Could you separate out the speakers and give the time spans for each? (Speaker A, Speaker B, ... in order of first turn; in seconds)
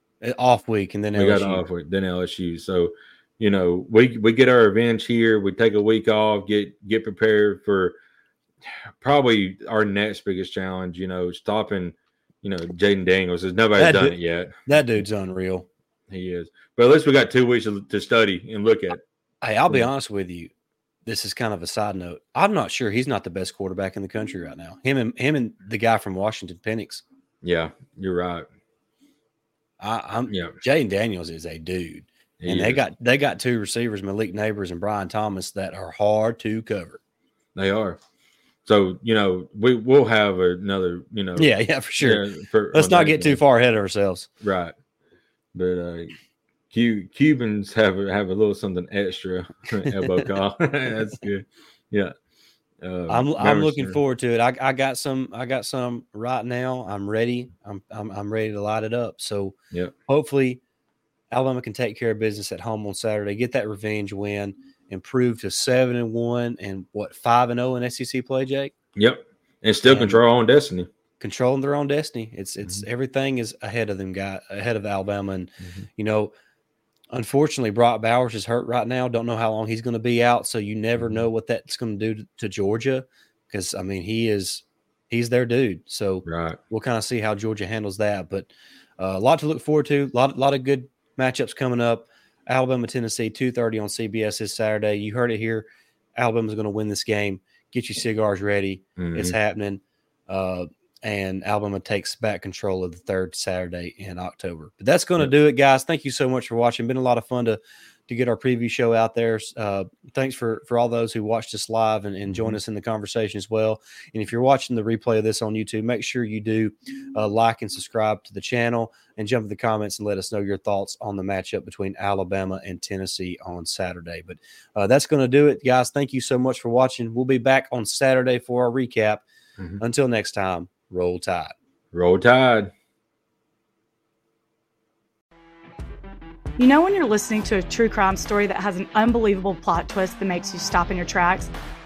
Speaker A: 0.2-1.6, 13.8-14.2, 14.7-15.7, 19.4-20.5, 21.1-27.0, 29.8-37.0, 41.4-42.2, 42.7-44.3, 49.8-50.3, 53.1-59.6, 60.1-60.6, 61.3-68.7, 69.8-70.2, 71.2-76.3, 77.1-129.2, 129.8-131.5
Speaker B: 1.1-8.0, 9.0-14.6, 16.1-19.0, 27.4-28.5, 30.3-30.6, 32.4-32.8, 37.6-38.0, 38.6-43.4, 44.4-44.7, 45.5-46.1, 46.7-52.1, 52.8-54.0, 69.0-70.9, 81.0-81.2, 86.3-86.6, 99.0-99.3, 112.3-112.6, 131.9-132.7
Speaker C: 136.6-141.5